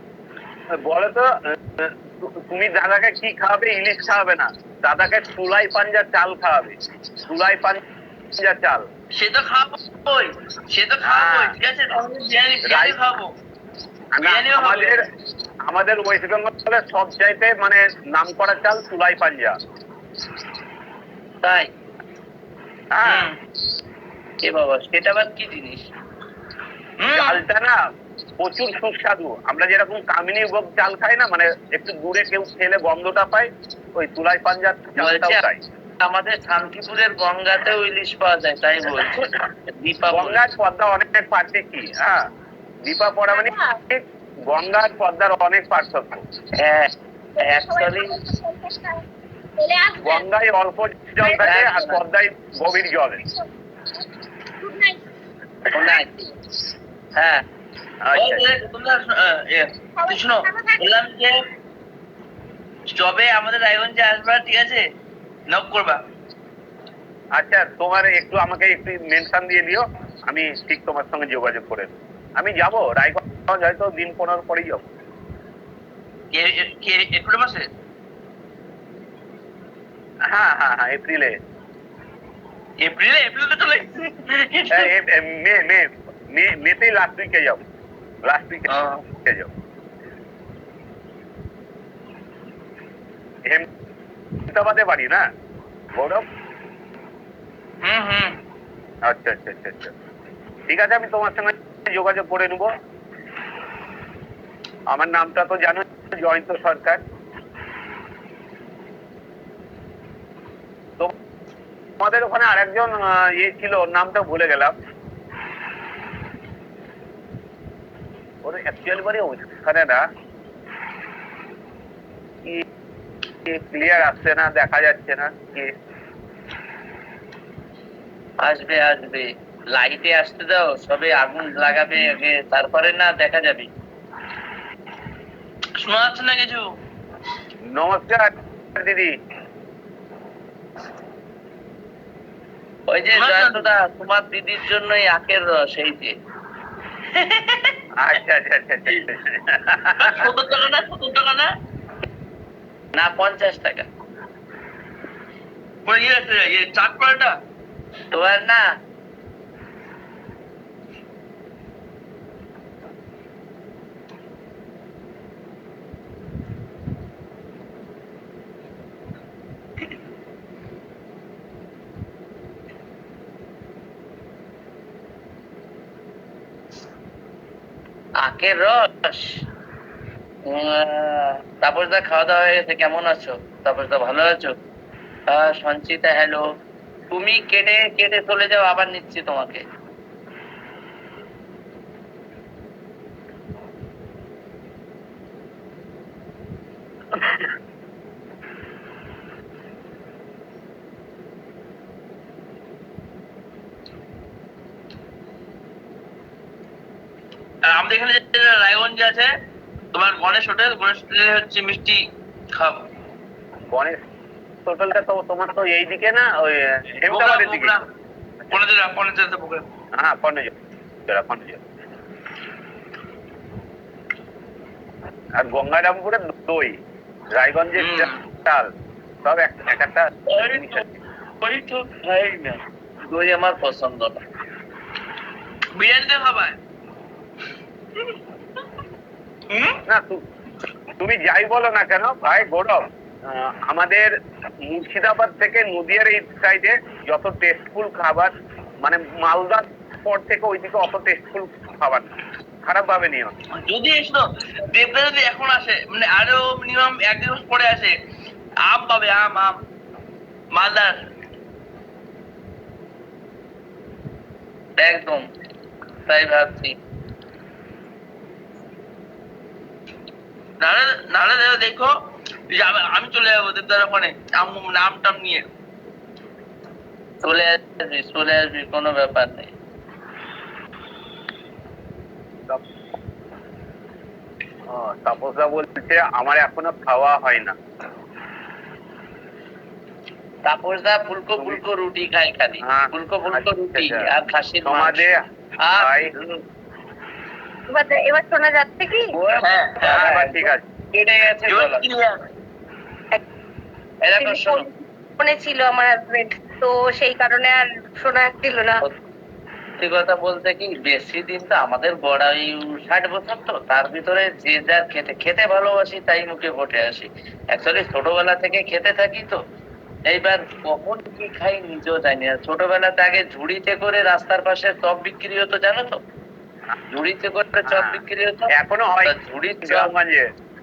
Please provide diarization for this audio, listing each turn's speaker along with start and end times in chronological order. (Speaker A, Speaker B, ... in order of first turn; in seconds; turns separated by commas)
Speaker A: 0.8-7.8, Speaker A: 8.3-8.8, Speaker B: 9.2-13.3, Speaker A: 11.0-11.5, Speaker A: 12.7-13.0, Speaker A: 14.2-15.0, Speaker B: 14.2-15.0, Speaker A: 15.7-19.6, Speaker C: 21.4-21.7, Speaker A: 22.9-23.3, Speaker B: 23.1-23.4, Speaker C: 24.4-25.9, Speaker B: 27.0-27.4, Speaker A: 27.1-27.8, Speaker A: 28.4-35.6, Speaker C: 35.0-35.4, Speaker C: 36.0-40.4, Speaker A: 40.1-42.2, Speaker A: 42.9-46.2, Speaker D: 43.4-43.6, Speaker C: 46.6-48.2, Speaker D: 47.4-49.0, Speaker D: 49.6-50.2, Speaker A: 50.0-53.2, Speaker D: 51.2-51.6, Speaker C: 51.3-52.0, Speaker D: 54.6-55.0, Speaker C: 55.7-56.3, Speaker C: 57.2-57.4, Speaker A: 58.0-58.5, Speaker B: 58.1-61.4, Speaker D: 60.0-60.8, Speaker B: 62.9-64.8, Speaker B: 65.5-66.0, Speaker A: 67.3-74.9, Speaker B: 76.3-77.7, Speaker A: 80.3-81.4, Speaker B: 82.8-84.9, Speaker A: 84.7-87.6, Speaker A: 88.2-89.5, Speaker A: 94.5-95.3, Speaker A: 96.0-96.3, Speaker B: 97.8-98.4, Speaker A: 99.1-99.9, Speaker A: 100.7-102.7, Speaker A: 104.9-107.0, Speaker A: 112.0-114.8, Speaker A: 118.4-120.0, Speaker A: 123.5-125.8, Speaker C: 128.4-133.7, Speaker B: 135.8-136.6, Speaker A: 137.7-139.2, Speaker C: 142.9-146.1, Speaker B: 143.2-143.7, Speaker B: 147.2-147.7, Speaker A: 148.0-150.3, Speaker B: 150.0-151.5, Speaker C: 152.9-153.9, Speaker B: 155.9-157.3, Speaker C: 158.1-158.7, Speaker C: 178.2-179.4, Speaker C: 180.5-184.6, Speaker C: 185.3-186.4, Speaker C: 187.1-189.6, Speaker B: 207.7-209.3, Speaker B: 209.9-212.0, Speaker B: 212.5-212.8, Speaker A: 213.7-214.0, Speaker A: 214.7-217.8, Speaker B: 217.1-217.8, Speaker B: 218.5-219.7, Speaker A: 219.9-220.5, Speaker A: 221.1-221.6, Speaker A: 225.3-226.8, Speaker A: 227.3-228.7, Speaker B: 227.8-228.2, Speaker A: 229.2-230.8, Speaker C: 230.3-230.9, Speaker C: 231.4-234.2, Speaker B: 235.8-236.6, Speaker B: 239.5-239.8, Speaker A: 239.9-240.2, Speaker A: 241.0-244.1, Speaker A: 244.7-253.3, Speaker B: 253.6-257.9, Speaker B: 258.7-259.6, Speaker B: 260.5-261.0, Speaker C: 264.8-265.3, Speaker C: 266.1-266.8, Speaker B: 270.6-271.9, Speaker B: 272.5-275.4, Speaker C: 277.2-279.5, Speaker A: 284.7-287.6, Speaker C: 290.5-295.1, Speaker A: 292.6-294.1, Speaker A: 294.7-295.2, Speaker C: 295.6-296.4, Speaker A: 295.8-296.1, Speaker D: 297.7-299.1, Speaker C: 299.1-301.9, Speaker B: 299.4-300.0, Speaker A: 299.9-300.6, Speaker B: 301.5-302.2, Speaker C: 304.0-304.7, Speaker D: 304.2-308.8, Speaker C: 309.8-319.4, Speaker C: 320.1-326.0, Speaker C: 326.9-328.5, Speaker A: 327.7-328.0, Speaker A: 328.5-330.3, Speaker C: 329.0-329.9